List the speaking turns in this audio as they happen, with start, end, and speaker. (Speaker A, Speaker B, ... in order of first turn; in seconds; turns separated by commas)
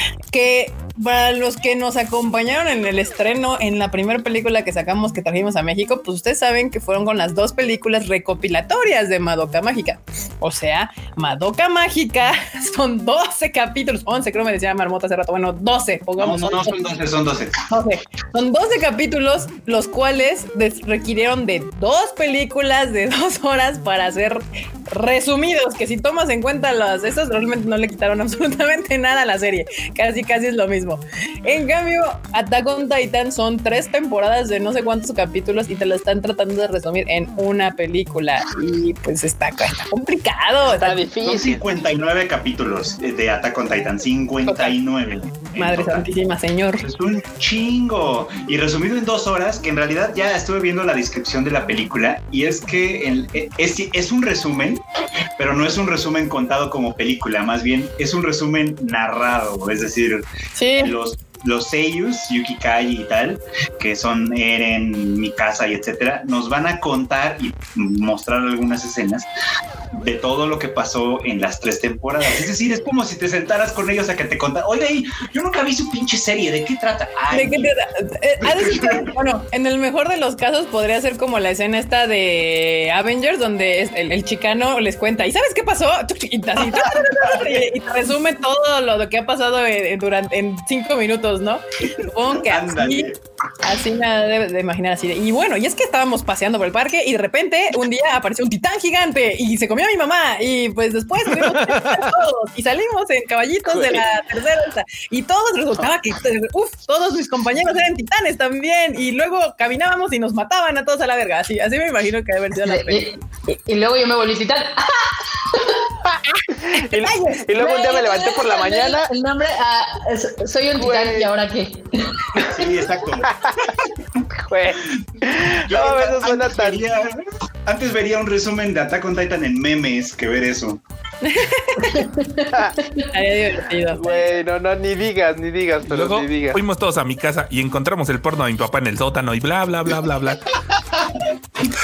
Speaker A: 0.3-16.7, Speaker B: 16.2-17.6, Speaker A: 17.7-41.0, Speaker C: 40.7-41.6, Speaker B: 41.2-46.0, Speaker A: 44.5-44.7, Speaker A: 45.6-46.8, Speaker B: 46.8-54.8, Speaker B: 55.4-60.3, Speaker A: 60.5-60.9, Speaker B: 60.8-69.3, Speaker B: 69.9-77.7, Speaker A: 77.3-93.1, Speaker B: 78.4-79.1, Speaker B: 86.6-87.7, Speaker B: 91.8-93.2, Speaker A: 93.6-113.1, Speaker C: 103.7-104.0, Speaker D: 112.6-115.9, Speaker C: 116.7-119.1, Speaker A: 116.7-117.6, Speaker D: 117.5-122.5, Speaker C: 120.8-121.3, Speaker B: 122.5-123.3, Speaker C: 123.2-123.7, Speaker C: 124.5-126.8, Speaker B: 125.0-130.8, Speaker A: 131.2-132.1, Speaker D: 131.8-133.1, Speaker A: 133.1-134.3, Speaker C: 133.9-136.6, Speaker E: 135.9-140.4, Speaker B: 140.9-141.2